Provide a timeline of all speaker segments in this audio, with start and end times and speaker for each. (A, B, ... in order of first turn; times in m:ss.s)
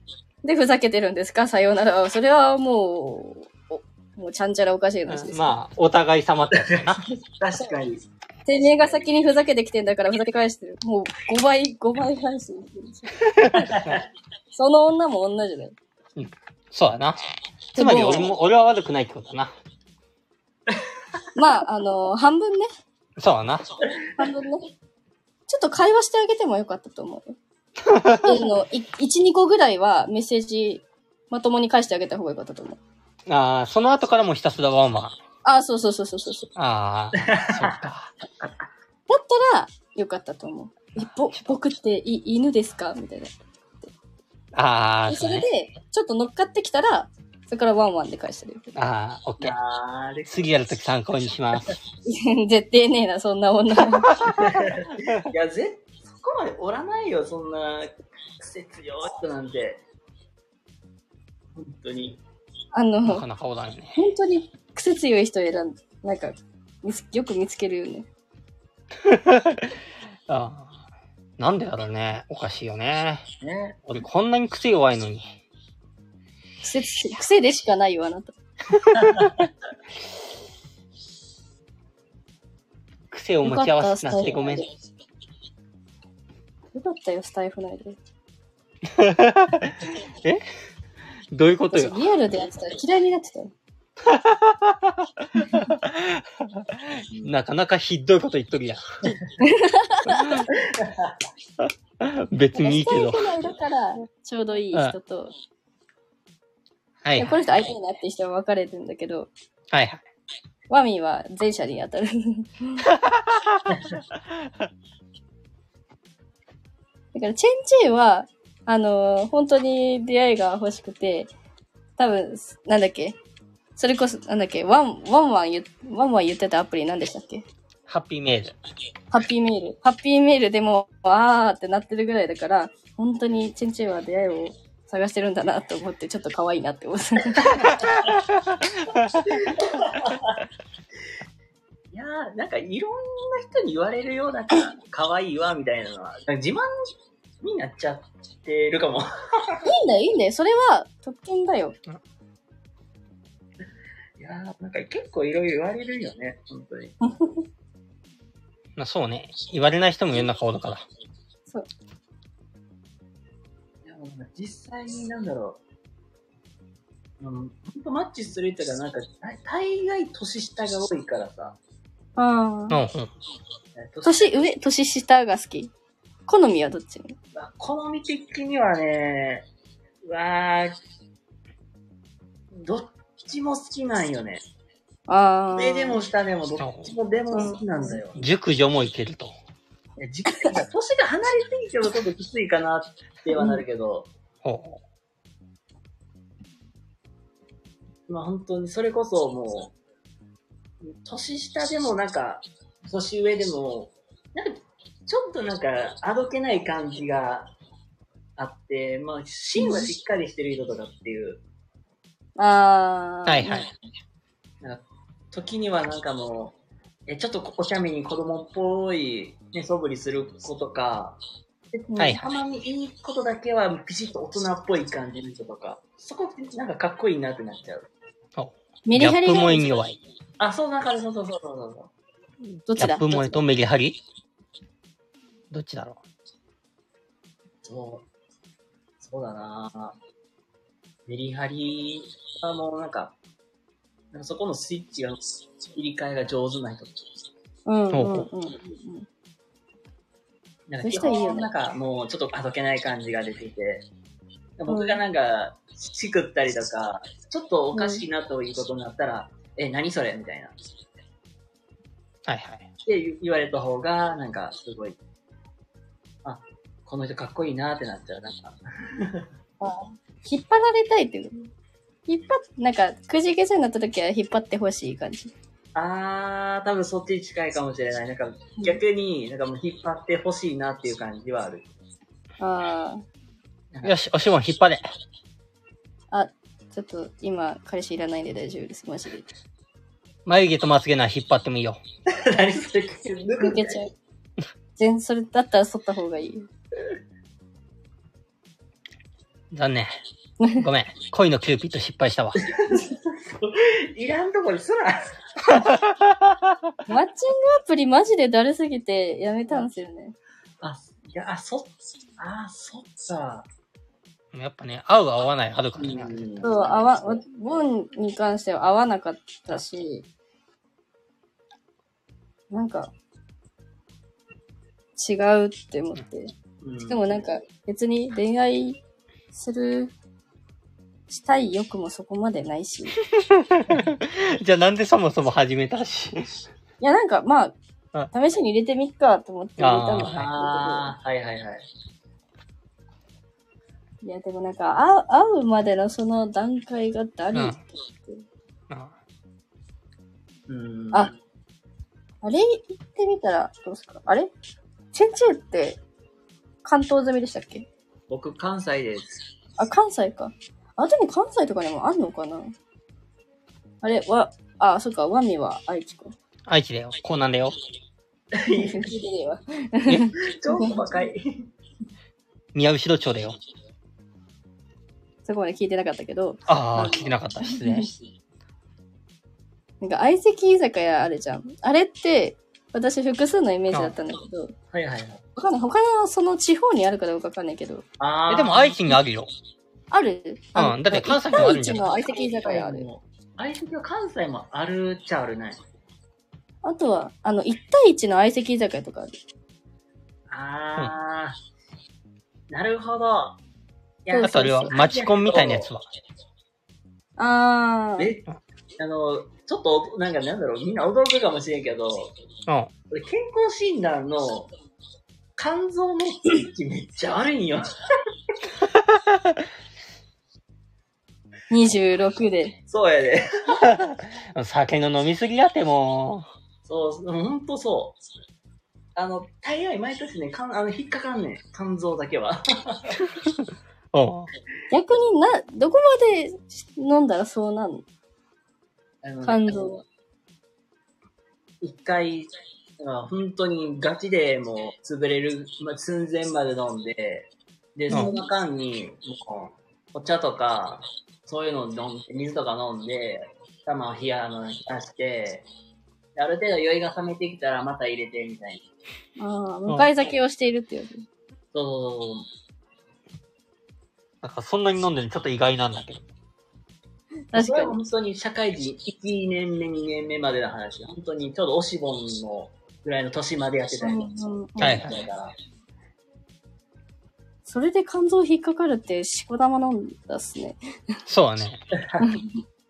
0:00.4-0:05.6 A
0:05.1-0:07.0 B
0:06.5-0:08.0 C
0:08.4-0:13.2 A
0:13.4-0:14.0 B
0:13.6-0:14.0 C
0:14.5-0:15.7 A
0:16.2-0:17.2 B
0:17.7-0:18.3 A
0:17.8-0:19.5 B
0:21.3-0:22.7 A
0:23.2-0:23.7 B
0:24.2-0:24.7 A
0:25.5-0:27.4 A
0:27.8-0:28.4 B
0:28.2-0:32.8 A
0:33.3-0:35.2 B
0:35.4-0:36.5 A
0:36.6-0:38.1 B
0:37.2-0:37.8 C
0:39.1-0:43.3 A
0:44.5-0:45.4 B
0:45.1-0:48.7 A
0:48.8-0:49.6 B
0:49.4-0:50.5 C
0:50.3-0:51.8 B
0:52.0-0:54.3 A
0:54.0-0:55.3 B
0:54.4-0:59.8 C
1:01.6-1:02.2 C
1:02.7-1:03.2 A
1:03.0-1:04.0 B
1:03.9-1:08.1 A
1:09.0-1:10.8 B
1:11.4-1:13.2 B
1:13.4-1:13.8 C
1:13.8-1:15.3 B
1:16.6-1:18.3 A
1:18.8-1:19.5 B
1:19.0-1:19.2 C
1:23.1-1:24.6 B
1:23.4-1:24.7 A
1:26.7-1:28.0 A
1:28.8-1:30.4 B
1:31.3-1:32.0 B
1:31.7-1:33.5 A
1:34.0-1:39.2 B
1:39.4-1:40.5 A
1:40.1-1:40.5 B
1:40.5-1:41.2 C
1:41.6-1:43.4 B
1:42.5-1:45.3 A
1:47.0-1:47.4 B
1:47.2-1:49.3 A
1:49.7-1:50.0 B
1:50.7-1:52.8 A
1:52.9-1:54.7 B
1:57.1-2:01.3 A
2:02.0-2:03.2 A
2:03.8-2:07.4 A
2:07.9-2:08.6 B
2:09.1-2:17.8 A
2:17.8-2:19.5 B
2:19.3-2:20.4 C
2:21.9-2:26.7 C
2:27.4-2:29.7 C
2:29.6-2:31.8 A
2:34.2-2:37.0 C
2:37.0-2:37.4 A
2:38.8-2:40.8 B
2:43.8-2:45.6 C
2:47.2-2:51.6 C
2:52.2-2:52.8 A
2:52.7-2:53.1 B
2:53.8-2:54.3 C
2:54.0-2:55.7 A
2:56.3-2:57.2 A
2:57.3-2:59.5 C
3:00.0-3:00.8 C
3:02.5-3:04.4 C
3:05.1-3:06.0 A
3:05.6-3:08.2 C
3:06.6-3:06.9 B
3:07.3-3:08.0 A
3:08.1-3:09.3 B
3:10.0-3:14.1 C
3:13.3-3:13.6 A
3:14.4-3:14.8 B
3:18.1-3:19.7 C
3:20.8-3:27.5 C
3:28.4-3:31.4 C
3:29.6-3:29.9 A
3:32.4-3:33.7 A
3:33.3-3:33.7 B
3:34.6-3:36.6 C
3:37.1-3:41.2 C
3:41.7-3:47.9 C
3:41.9-3:42.2 A
3:42.0-3:42.3 B
3:48.4-3:50.0 B
3:48.8-3:49.7 A
3:50.4-3:51.9 C
3:52.7-3:53.4 A
3:52.7-3:54.0 B
3:55.5-3:56.0 B
3:57.6-3:58.0 C
3:59.0-4:00.0 C
4:01.1-4:03.2 C
4:04.1-4:07.0 C
4:07.6-4:09.1 A
4:07.9-4:08.3 B
4:10.7-4:13.9 C
4:10.8-4:11.5 A
4:14.6-4:20.6 C
4:14.7-4:15.0 A
4:17.7-4:18.0 A
4:22.2-4:22.6 B
4:22.8-4:25.0 C
4:26.2-4:29.3 C
4:29.6-4:31.5 A
4:32.1-4:35.3 A
4:35.7-4:41.7 C
4:42.4-4:43.0 A
4:43.8-4:44.8 B
4:46.1-4:49.3 A
4:50.2-4:51.8 B
4:52.1-4:53.8 C
4:53.4-4:53.9 A
4:54.8-4:56.5 A
4:59.5-5:00.0 B
5:00.6-5:02.4 B
5:02.4-5:05.2 C
5:05.5-5:06.3 B
5:06.9-5:10.1 A
5:10.6-5:13.5 C
5:14.3-5:16.5 B
5:15.8-5:17.2 C
5:16.4-5:20.1 A
5:22.5-5:22.9 A
5:25.0-5:26.3 A
5:26.6-5:27.0 C
5:26.9-5:28.8 A
5:29.3-5:29.9 A
5:31.1-5:32.9 A
5:33.1-5:36.4 B
5:36.8-5:37.5 A
5:38.1-5:40.9 A
5:39.6-5:40.3 B
5:40.1-5:41.6 C
5:44.0-5:48.2 A
5:47.3-5:47.6 B
5:48.7-5:48.9 B
5:50.5-5:51.1 C
5:52.2-5:54.3 A
5:54.9-5:55.8 A
5:56.6-5:57.7 A
5:58.1-5:59.2 C
5:59.6-6:02.5 A
6:03.8-6:06.1 A
6:06.5-6:07.5 B
6:08.3-6:09.0 C
6:08.5-6:10.8 A
6:10.2-6:11.5 C
6:12.5-6:13.4 B
6:15.2-6:17.9 A
6:16.5-6:17.9 B
6:19.8-6:24.5 A
6:24.7-6:25.2 C
6:25.4-6:27.8 A
6:28.0-6:28.8 C
6:28.3-6:29.3 B
6:29.9-6:32.8 A
6:30.6-6:31.9 B
6:32.1-6:35.6 C
6:36.6-6:39.1 A
6:40.3-6:41.4 C
6:42.5-6:43.4 C
6:44.0-6:45.7 C
6:44.1-6:44.7 A
6:44.2-6:45.8 B
6:47.2-6:48.1 A
6:48.0-6:48.3 C
6:48.8-6:52.1 C
6:52.9-6:54.5 C
6:55.4-6:57.6 C
6:59.1-6:59.3 B
7:01.5-7:02.6 A
7:02.7-7:03.6 C
7:03.6-7:06.3 B
7:06.6-7:08.0 C
7:09.0-7:13.0 C
7:13.3-7:14.3 B
7:14.7-7:17.8 A
7:19.0-7:19.7 C
7:19.2-7:19.8 A
7:21.6-7:35.4 C
7:27.9-7:28.3 A
7:36.2-7:38.6 C
7:39.2-7:41.0 A
7:41.5-7:42.3 C
7:44.2-7:46.0 B
7:47.3-7:47.8 A
7:47.3-7:55.3 C
7:53.8-7:54.9 A
7:54.6-7:55.0 B
7:57.4-8:00.6 A
8:01.1-8:01.6 B
8:01.7-8:02.1 C
8:02.0-8:02.4 A